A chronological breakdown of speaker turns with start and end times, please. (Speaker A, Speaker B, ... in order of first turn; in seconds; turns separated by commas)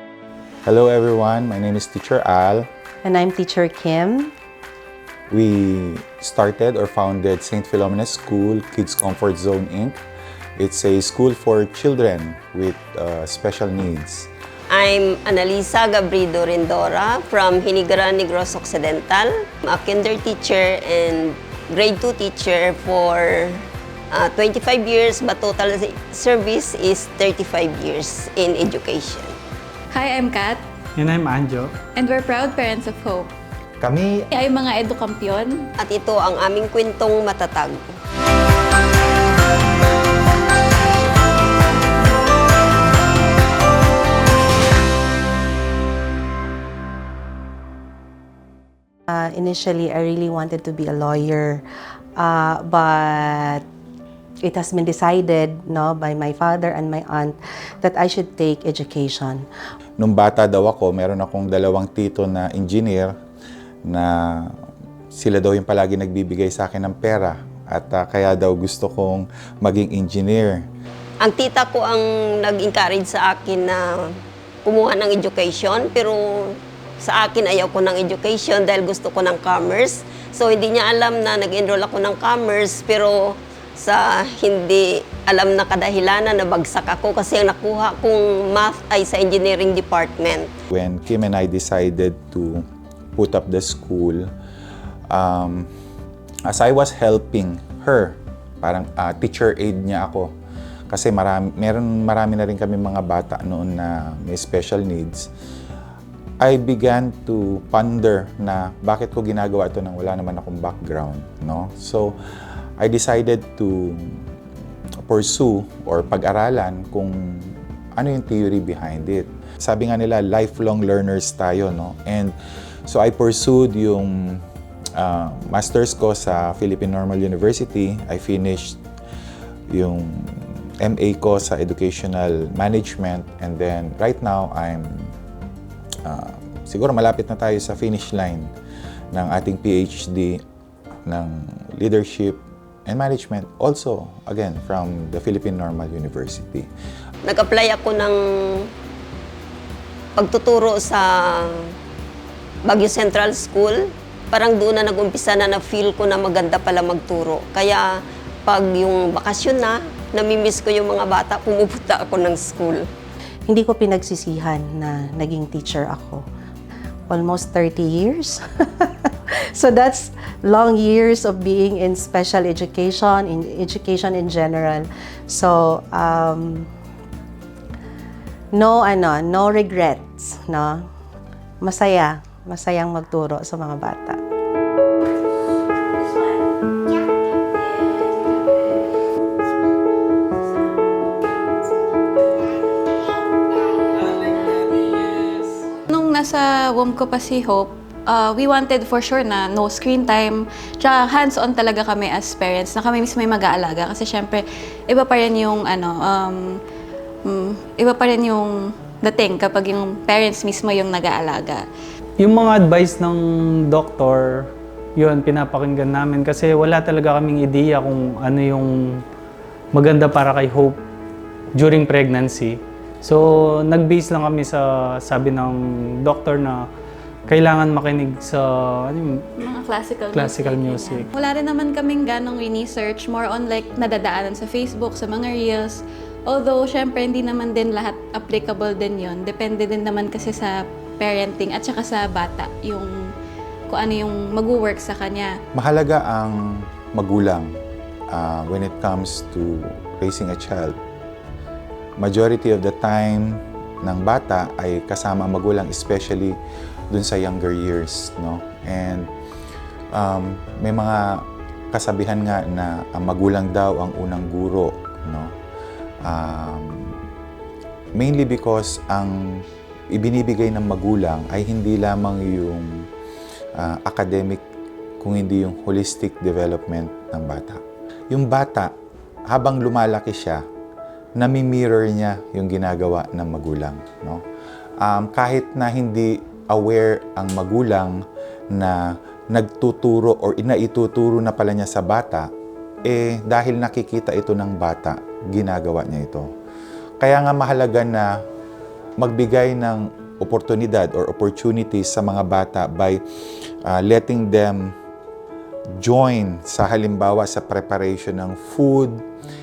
Speaker A: 0.7-2.7, Speaker B: 3.0-4.3, Speaker A: 5.3-10.0, Speaker A: 10.6-14.3, Speaker C: 14.7-29.4, Speaker D: 29.9-30.6, Speaker E: 31.0-31.7, Speaker D: 31.9-33.3, Speaker A: 33.8-34.2, Speaker D: 34.3-35.7, Speaker C: 35.8-38.0, Speaker B: 49.1-51.6, Speaker B: 52.2-53.6, Speaker B: 54.4-59.4, Speaker A: 60.0-63.1, Speaker A: 63.9-64.5, Speaker A: 65.1-70.7, Speaker C: 71.2-73.8, Speaker C: 74.7-90.5, Speaker A: 90.7-92.6, Speaker A: 93.2-94.3, Speaker A: 95.1-95.7, Speaker A: 96.5-100.3, Speaker A: 100.9-105.3, Speaker A: 106.4-112.2, Speaker A: 112.8-114.2, Speaker A: 115.1-122.3, Speaker A: 122.9-124.4, Speaker A: 125.0-128.8, Speaker A: 129.7-135.1, Speaker A: 136.1-138.5, Speaker A: 139.1-140.4, Speaker A: 141.1-146.7, Speaker C: 147.2-148.7, Speaker C: 150.2-151.8, Speaker C: 152.7-157.8, Speaker C: 158.5-162.9, Speaker B: 163.5-166.2, Speaker B: 167.1-176.7, Speaker B: 178.5-180.8, Speaker B: 181.6-184.2, Speaker E: 194.0-195.5, Speaker D: 195.9-206.5, Speaker D: 207.2-211.7, Speaker E: 212.2-218.7, Speaker E: 219.7-220.8, Speaker E: 221.6-226.7, Speaker E: 227.3-229.2, Speaker D: 229.4-243.0, Speaker E: 230.1-231.1, Speaker D: 243.7-245.3, Speaker A: 245.5-247.5, Speaker A: 248.1-250.8, Speaker A: 252.0-256.4, Speaker A: 256.9-259.1, Speaker A: 259.9-265.3, Speaker A: 266.0-266.9, Speaker A: 267.9-272.7, Speaker A: 273.6-274.4, Speaker A: 275.0-278.7, Speaker A: 279.3-280.4, Speaker A: 281.2-284.2, Speaker A: 284.8-288.0, Speaker A: 288.5-292.3, Speaker A: 292.8-296.3, Speaker A: 297.0-298.2, Speaker A: 299.0-303.0, Speaker A: 303.6-304.7, Speaker A: 305.8-309.0